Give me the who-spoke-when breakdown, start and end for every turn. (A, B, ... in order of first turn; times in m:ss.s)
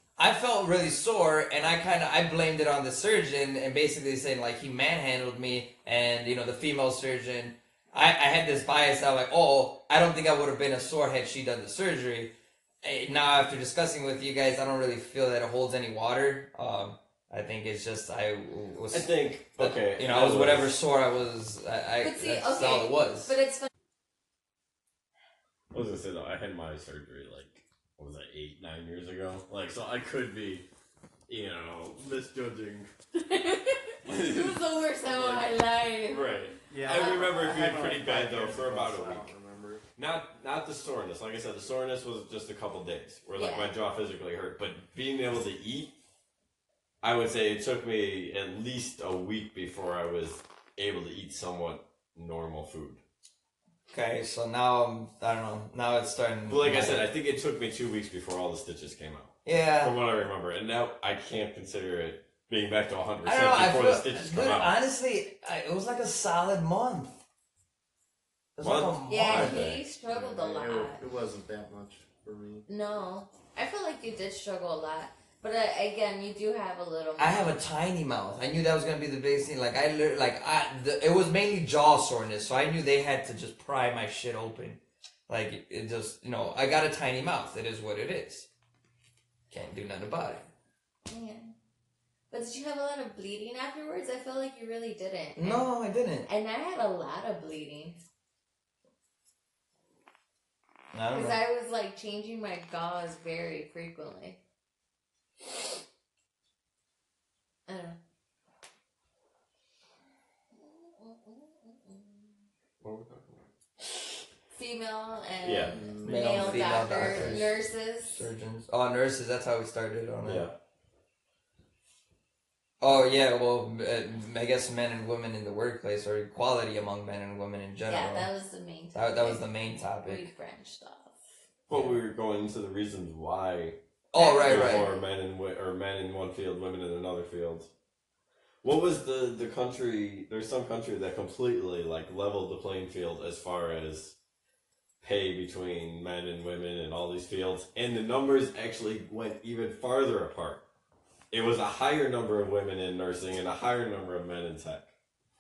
0:00.2-0:12.3 A
0:12.8-0:23.4 A
0:18.9-0:20.7 B
0:22.0-0:23.7 C
0:25.7-0:30.7 B
0:31.3-0:32.9 B
0:33.2-0:36.4 C
0:34.0-0:39.3 B
0:36.7-0:39.8 D
0:36.9-0:37.2 C
0:40.0-0:45.9 B
0:43.4-0:43.7 C
0:47.0-0:53.0 B
0:53.9-0:57.1 A
0:56.5-1:04.7 B
0:59.4-1:00.0 A
1:03.2-1:07.2 A
1:08.6-1:09.6 A
1:08.6-1:09.8 B
1:09.1-1:11.0 C
1:10.1-1:12.7 D
1:12.7-1:17.6 C
1:17.2-1:28.5 A
1:29.5-1:30.5 A
1:31.1-1:31.6 C
1:32.3-1:35.7 C
1:35.4-1:36.3 A
1:36.3-1:38.1 C
1:40.9-1:41.4 A
1:41.1-1:44.4 C
1:47.7-1:48.0 C
1:50.5-1:52.4 C
1:52.8-1:54.1 B
1:54.5-1:58.2 C
1:55.4-1:55.8 B
1:55.7-1:57.4 D
1:56.0-2:00.5 A
1:57.0-1:57.4 B
2:00.2-2:00.5 B
2:02.8-2:08.3 A
2:07.9-2:09.4 C
2:09.0-2:10.2 A
2:10.0-2:11.2 C
2:11.7-2:13.8 B
2:11.7-2:12.0 A
2:14.1-2:14.9 A
2:14.1-2:15.1 C
2:14.4-2:17.7 B
2:18.6-2:24.2 B
2:25.0-2:30.6 B
2:31.3-2:34.9 B